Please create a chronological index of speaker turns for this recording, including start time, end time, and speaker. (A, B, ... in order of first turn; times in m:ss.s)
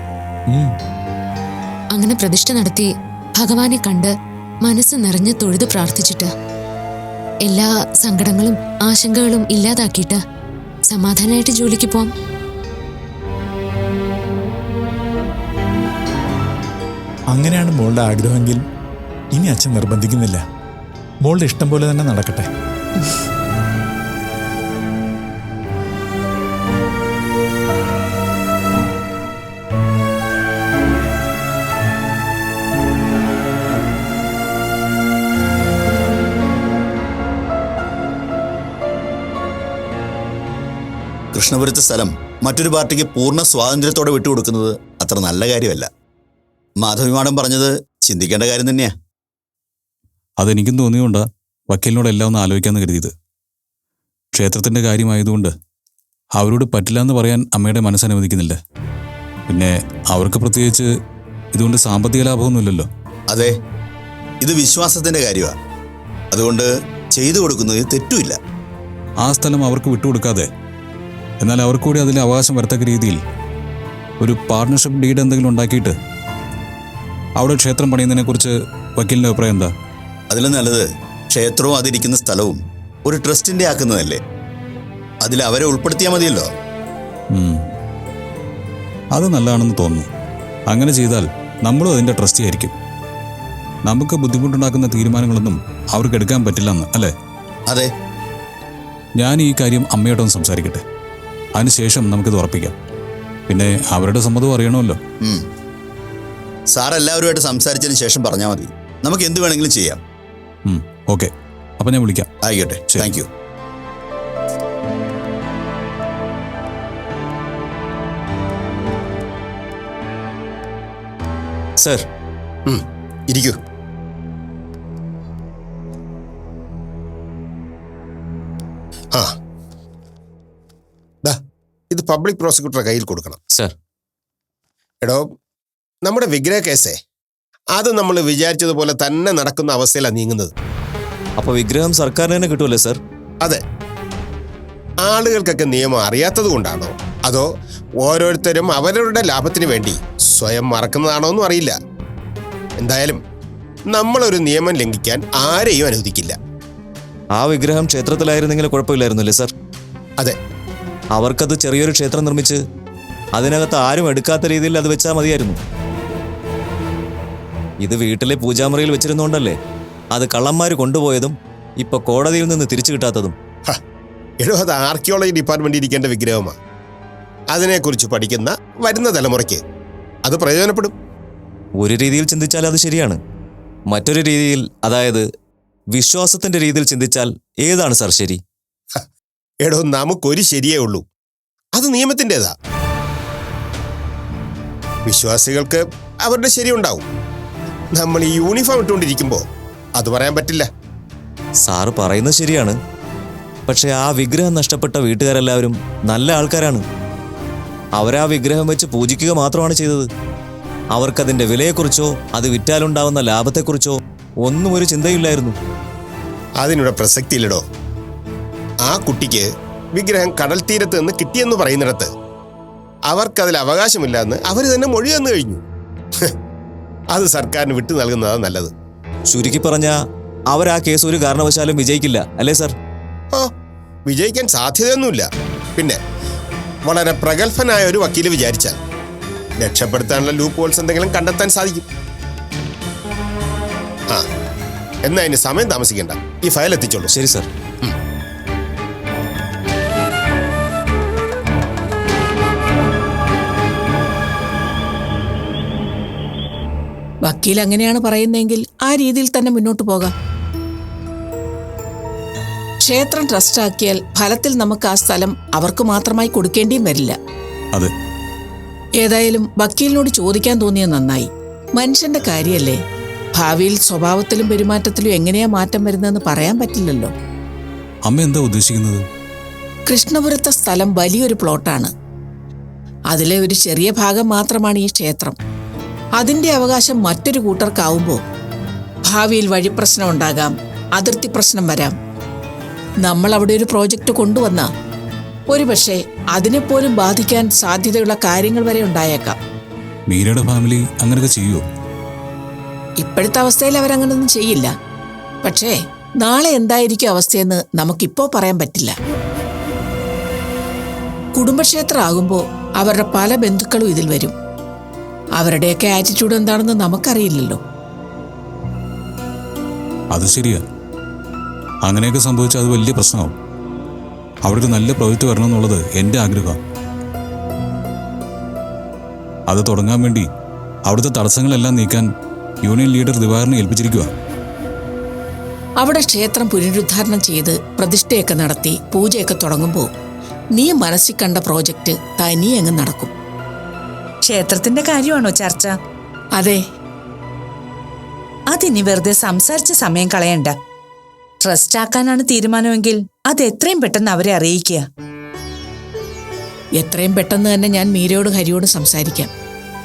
0:02.0-0:04.1 A
0:04.6-0:06.3 A
0:07.5-0:10.2 A
0:10.9-0:12.1 A
0:17.3-0:18.6 B
0:19.4-0:20.4 B
0:21.2-0:22.5 B
0:41.3-0:45.9 C
0:46.8-0:49.0 C
0:50.4-0:53.1 D
0:54.3-0:55.5 D
0:56.4-0:58.6 D
0:59.5-1:00.9 D
1:01.5-1:02.9 D
1:03.3-1:03.6 C
1:04.4-1:05.6 C
1:06.3-1:08.4 C
1:09.2-1:10.5 D
1:11.4-1:13.2 D
1:14.2-1:15.9 D
1:17.4-1:19.7 D
1:20.3-1:24.2 C
1:25.2-1:26.5 C
1:27.3-1:27.6 D
1:29.1-1:30.1 D
1:30.7-1:32.7 D
1:33.8-1:37.1 D
1:37.7-1:37.9 C
1:39.2-1:40.8 D
1:41.6-1:42.7 D
1:43.5-1:45.0 D
1:45.2-1:45.5 C
1:46.7-1:50.0 C
1:50.7-1:52.3 D
1:52.4-1:53.3 C
1:52.9-1:53.2 D
2:01.8-2:02.1 E
2:02.7-2:03.6 F
2:11.9-2:13.4 F
2:15.0-2:15.3 F
2:16.0-2:17.0 F
2:17.7-2:20.5 F
2:21.4-2:23.0 E
2:25.0-2:27.5 F
2:28.0-2:31.8 F
2:32.8-2:33.2 F
2:33.9-2:36.4 F
2:37.3-2:39.5 E
2:41.1-2:42.6 E
2:43.3-2:45.6 E
2:47.8-2:49.6 E
2:50.1-2:53.4 E
2:54.4-2:56.6 F
2:57.5-2:59.6 F
3:00.2-3:00.9 F
3:01.8-3:03.2 E
3:03.9-3:05.3 E
3:05.9-3:08.4 E
3:09.6-3:11.0 F
3:11.8-3:12.5 F
3:15.1-3:17.0 F
3:17.9-3:19.4 F
3:20.0-3:20.7 F
3:21.6-3:22.8 E
3:23.7-3:26.8 E
3:27.9-3:30.1 E
3:30.9-3:35.6 E
3:36.6-3:37.6 F
3:38.8-3:42.1 F
3:43.1-3:45.6 F
3:47.1-3:48.7 F
3:49.3-3:50.0 E
3:50.5-3:52.7 E
3:54.1-3:56.0 F
3:56.8-3:58.8 F
3:59.6-4:01.8 F
4:05.0-4:07.1 F
4:07.2-4:07.5 E
4:17.3-4:20.1 G
4:22.8-4:27.2 G
4:29.0-4:32.8 G
4:33.4-4:37.1 G
4:38.0-4:39.0 D
4:39.9-4:41.9 G
4:43.1-4:45.4 G
4:46.2-4:48.2 G
4:49.1-4:51.9 G
4:53.0-4:54.7 G
4:55.5-4:59.4 G
5:00.1-5:01.6 D
5:03.0-5:04.7 G
5:05.4-5:08.9 G
5:11.4-5:14.3 G
5:15.4-5:17.6 G
5:20.1-5:20.6 D
5:21.8-5:23.4 D
5:24.4-5:26.6 D
5:29.5-5:30.3 D
5:30.9-5:32.1 D
5:32.6-5:34.1 D
5:35.8-5:39.9 G
5:40.6-5:43.1 G
5:44.2-5:45.8 H
5:48.5-5:50.5 H
5:51.4-5:54.8 H
5:56.8-5:59.3 G